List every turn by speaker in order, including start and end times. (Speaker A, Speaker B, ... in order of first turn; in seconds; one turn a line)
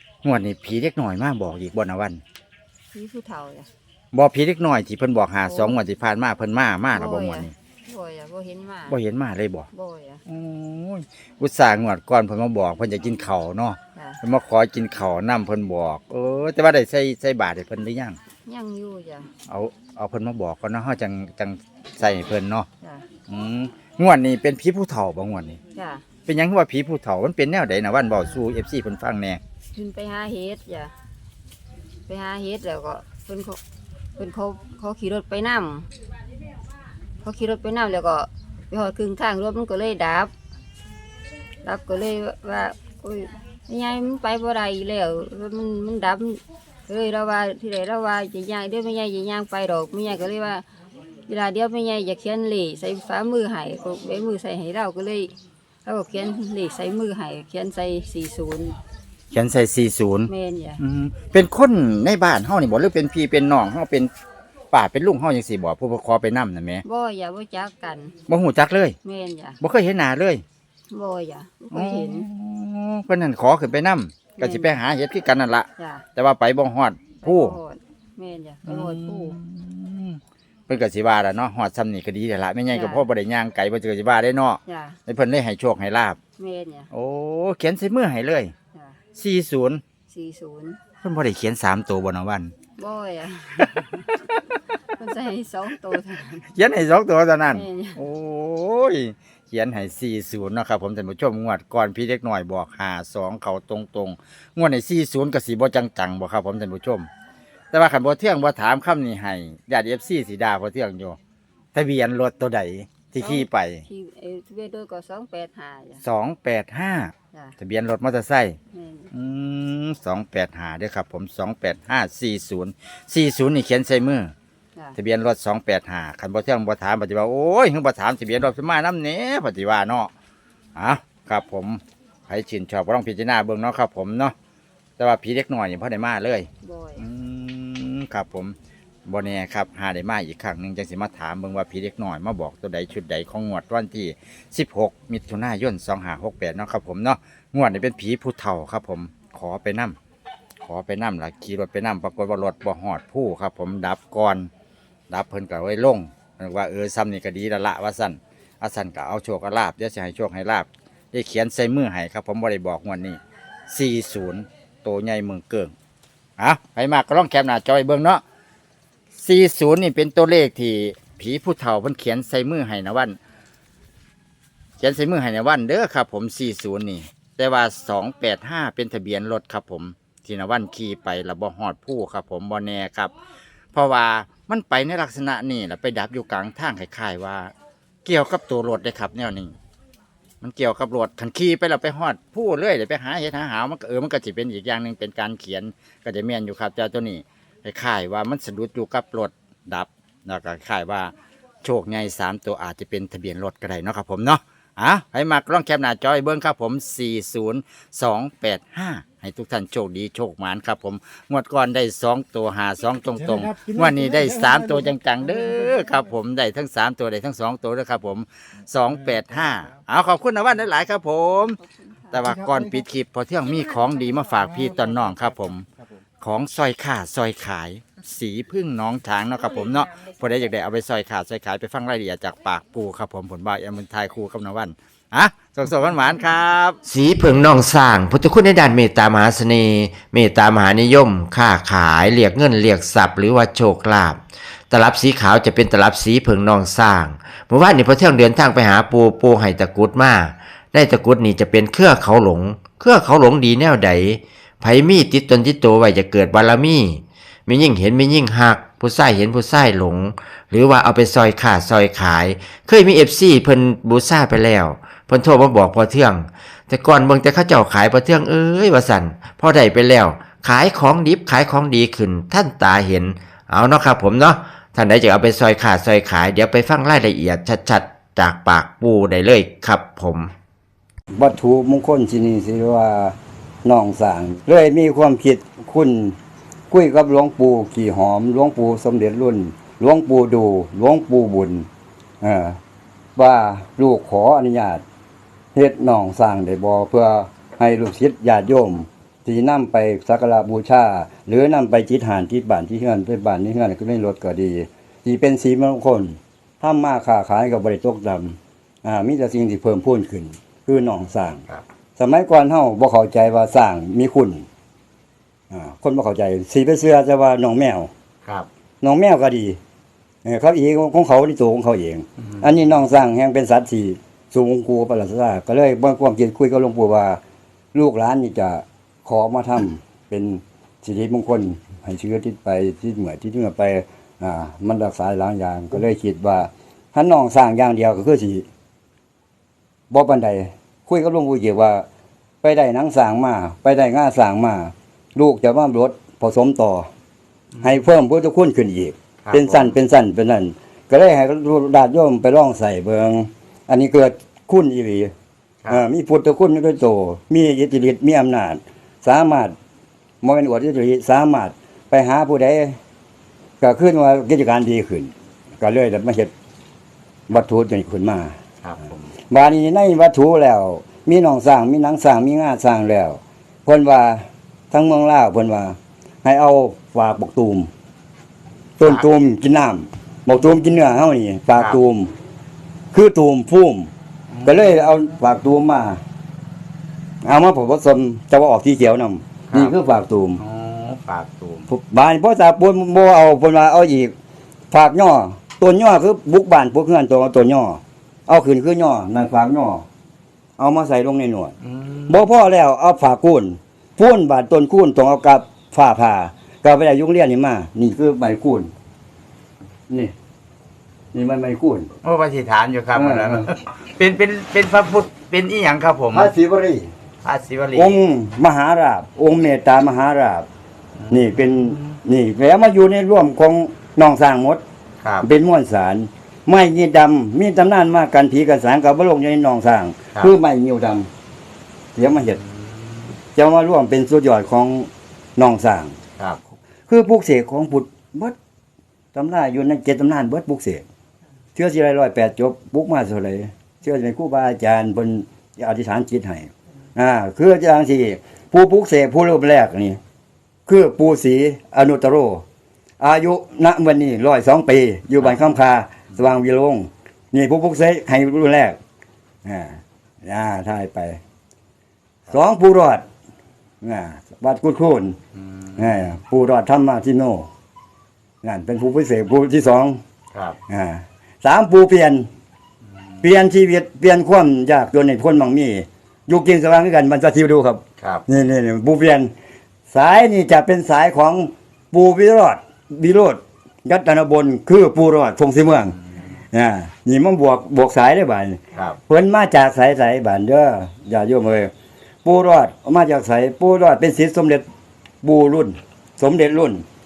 Speaker A: 0.2-2.2
Speaker B: 2.9-3.7
Speaker A: 4.1-7.5
Speaker B: 5.4-5.8
Speaker B: 6.9-9.0
Speaker A: 8.9-9.7
Speaker B: 9.7-10.2
Speaker A: 10.3-18.2
Speaker B: 18.5-19.3
Speaker A: 19.5-22.7
Speaker A: 23.3-25.6
Speaker B: 25.8-26.0
Speaker A: 26.3-29.4
Speaker B: 29.7-30.9
Speaker B: 32.1-33.6
Speaker B: 34.2-35.9
Speaker B: 37.2-40.3
Speaker B: 41.6-50.6
Speaker B: 51.3-55.3
Speaker B: 55.9-58.8
Speaker A: 59.3-64.1
Speaker B: 60.3-60.8
Speaker A: 64.7-66.8
Speaker B: 66.8-68.2
Speaker A: 68.3-69.0
Speaker B: 69.0-69.6
Speaker A: 69.6-70.4
Speaker B: 70.9-72.3
Speaker A: 71.7-77.6
Speaker B: 74.4-74.8
Speaker B: 75.8-76.0
Speaker B: 77.2-79.3
Speaker A: 78.7-86.2
Speaker B: 82.7-83.0
Speaker B: 84.7-85.0
Speaker B: 86.4-86.9
Speaker A: 86.9-88.5
Speaker B: 88.7-89.0
Speaker A: 89.2-89.8
Speaker B: 90.1-90.8
Speaker A: 91.0-92.5
Speaker B: 92.8-94.2
Speaker B: 94.8-96.5
Speaker A: 96.5-107.1
Speaker B: 97.5-98.0
Speaker A: 107.7-111.2
Speaker A: 111.8-113.8
Speaker B: 113.2-116.0
Speaker A: 116.0-118.6
Speaker B: 118.7-119.1
Speaker A: 119.1-124.3
Speaker A: 125.0-130.1
Speaker A: 130.8-134.3
Speaker A: 135.0-138.6
Speaker B: 136.6-137.0
Speaker A: 139.1-150.0
Speaker A: 150.6-154.5
Speaker A: 155.1-165.7
Speaker A: 166.4-168.2
Speaker A: 169.2-173.2
Speaker A: 174.8-183.1
Speaker A: 183.7-187.5
Speaker A: 188.1-189.6
Speaker A: 190.4-221.6
Speaker B: 221.7-222.1
Speaker A: 222.1-225.7
Speaker A: 226.2-236.8
Speaker C: 236.8-280.3
Speaker D: 281.1-286.2
Speaker D: 286.7-291.7
Speaker D: 292.2-292.6
Speaker D: 293.2-294.8
Speaker D: 295.5-311.4
Speaker D: 312.0-314.4
Speaker D: 315.5-317.9
Speaker D: 318.8-319.6
Speaker D: 320.2-327.2
Speaker A: 322.2-322.5
Speaker D: 327.7-338.4
Speaker D: 339.9-341.9
Speaker D: 342.4-346.9
Speaker A: 347.6-347.8
Speaker D: 347.6-355.1
Speaker A: 349.2-349.8
Speaker D: 355.7-359.5
Speaker D: 360.2-362.8
Speaker D: 363.6-366.3
Speaker D: 367.3-368.3
Speaker A: 368.6-369.1
Speaker D: 369.3-377.7
Speaker D: 378.8-382.1
Speaker A: 381.5-381.8
Speaker D: 382.9-383.9
Speaker A: 384.3-385.0
Speaker D: 384.4-386.0
Speaker D: 387.2-390.4
Speaker A: 389.5-389.8
Speaker A: 390.4-391.7
Speaker D: 391.7-394.1
Speaker D: 394.7-399.9
Speaker D: 400.6-401.6
Speaker A: 401.6-402.2
Speaker D: 402.1-408.7
Speaker D: 409.9-410.1
Speaker D: 411.1-411.9
Speaker A: 412.0-416.3
Speaker D: 412.9-413.5
Speaker D: 416.1-416.9
Speaker A: 417.2-418.0
Speaker D: 417.7-420.5
Speaker A: 421.0-422.0
Speaker D: 421.1-424.6
Speaker A: 425.0-425.3
Speaker D: 425.2-431.1
Speaker D: 431.9-432.4
Speaker A: 432.2-433.1
Speaker D: 433.4-435.9
Speaker D: 436.9-438.4
Speaker D: 439.1-440.8
Speaker D: 441.6-450.0
Speaker D: 450.7-452.4
Speaker D: 453.0-458.8
Speaker D: 459.4-461.2
Speaker D: 462.3-463.0
Speaker D: 463.8-465.2
Speaker A: 465.4-466.1
Speaker D: 465.8-467.5
Speaker D: 468.4-470.0
Speaker D: 470.7-472.3
Speaker D: 473.2-479.3
Speaker D: 479.9-486.0
Speaker D: 486.5-491.7
Speaker A: 488.7-489.0
Speaker D: 492.2-494.6
Speaker D: 495.2-496.8